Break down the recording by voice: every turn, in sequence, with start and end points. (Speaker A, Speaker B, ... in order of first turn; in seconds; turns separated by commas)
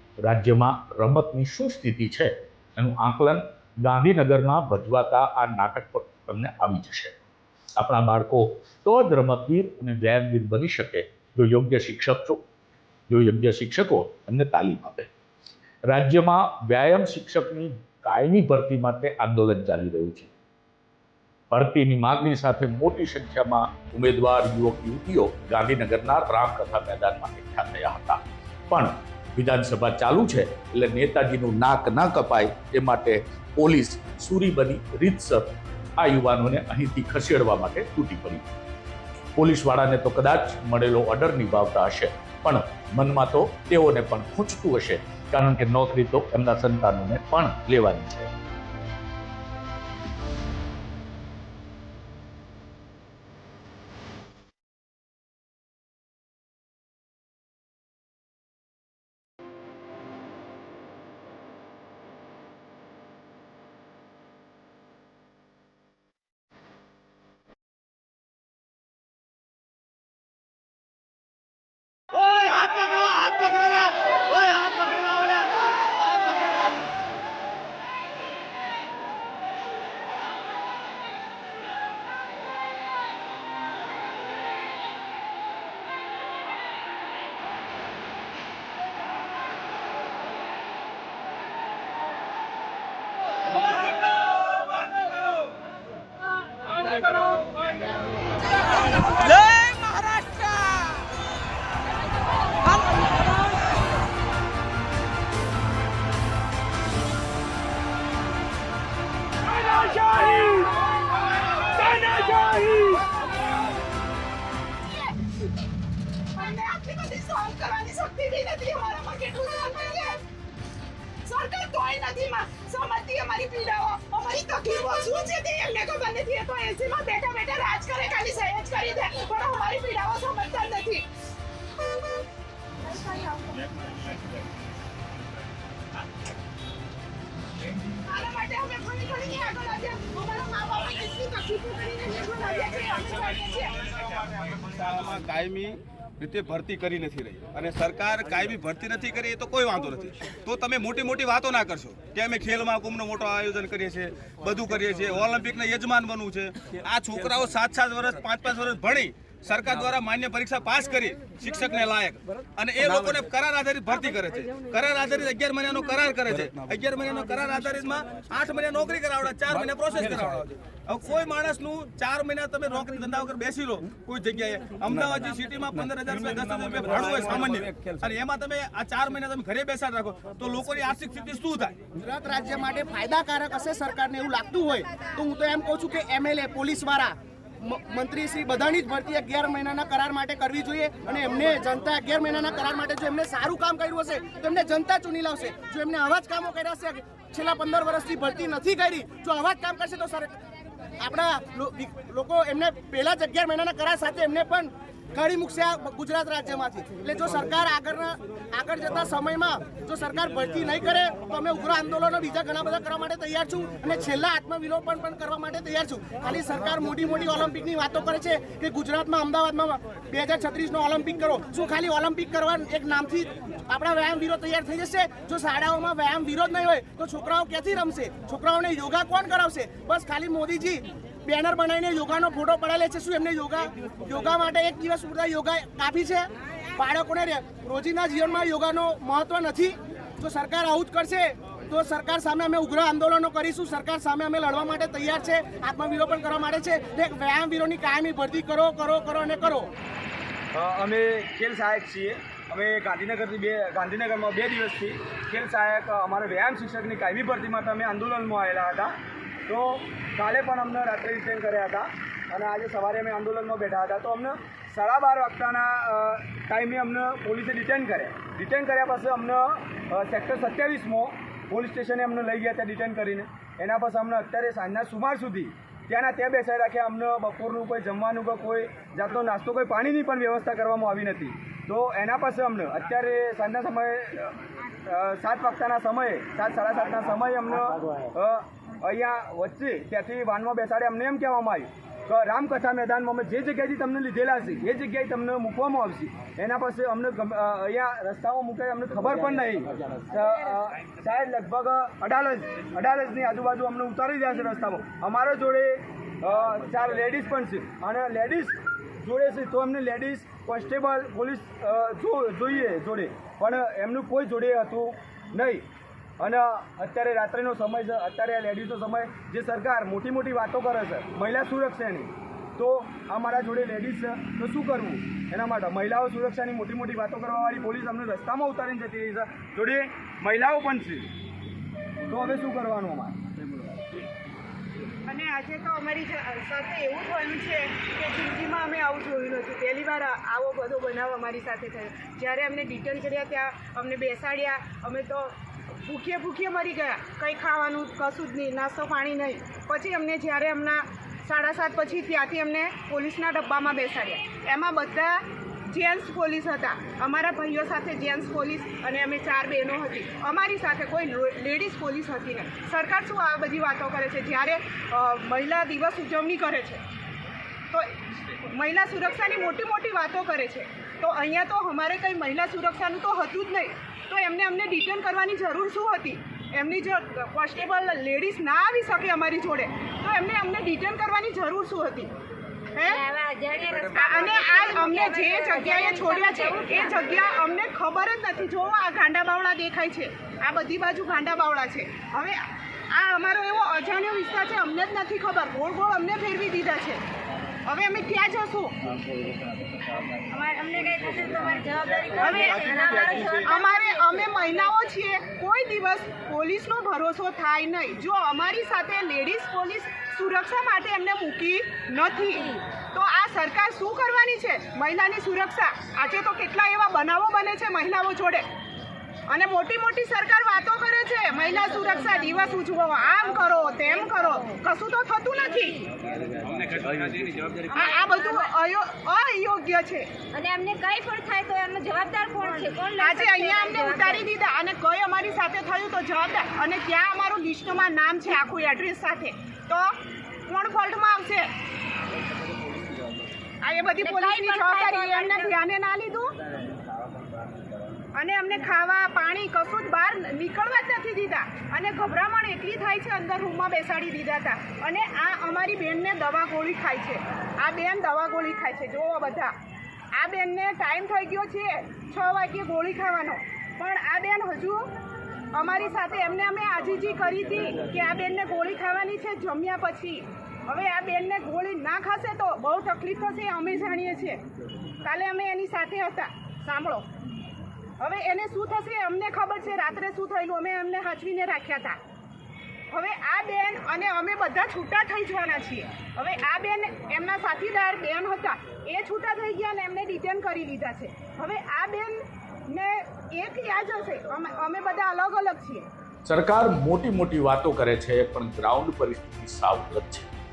Speaker A: 0.2-7.2, Speaker A: 7.8-12.4, Speaker A: 13.1-15.1, Speaker A: 15.9-20.3, Speaker A: 21.5-38.5, Speaker A: 39.4-48.3, Speaker B: 110.0-110.7, Speaker B: 111.7-113.0, Speaker B: 116.3-120.2, Speaker B: 121.2-131.1, Speaker B: 138.1-143.9, Speaker C: 144.7-181.8, Speaker D: 182.0-200.3, Speaker D: 201.0-249.7, Speaker E: 250.5-258.9, Speaker E: 259.5-315.6, Speaker E: 316.2-331.1, Speaker E: 332.1-333.4, Speaker B: 335.1-345.3, Speaker B: 345.9-366.8, Speaker B: 367.7-382.1, Speaker B: 382.7-383.0, Speaker F: 382.8-387.0, Speaker B: 383.9-392.4, Speaker B: 392.9-397.0, Speaker B: 397.7-398.8, Speaker F: 400.3-404.7, Speaker E: 402.0-403.5, Speaker B: 402.1-402.8, Speaker B: 403.4-418.5, Speaker F: 412.2-412.6, Speaker B: 419.3-425.9, Speaker F: 421.3-422.6, Speaker F: 423.4-424.5, Speaker F: 425.4-425.8, Speaker B: 427.7-430.1, Speaker F: 427.8-428.5, Speaker F: 430.3-434.3, Speaker B: 433.0-441.5, Speaker B: 443.6-446.4, Speaker F: 444.0-445.6, Speaker B: 448.1-459.5, Speaker B: 460.2-464.9, Speaker B: 465.5-474.4, Speaker B: 475.0-477.1, Speaker B: 478.0-482.0, Speaker B: 482.9-495.9, Speaker A: 496.3-500.3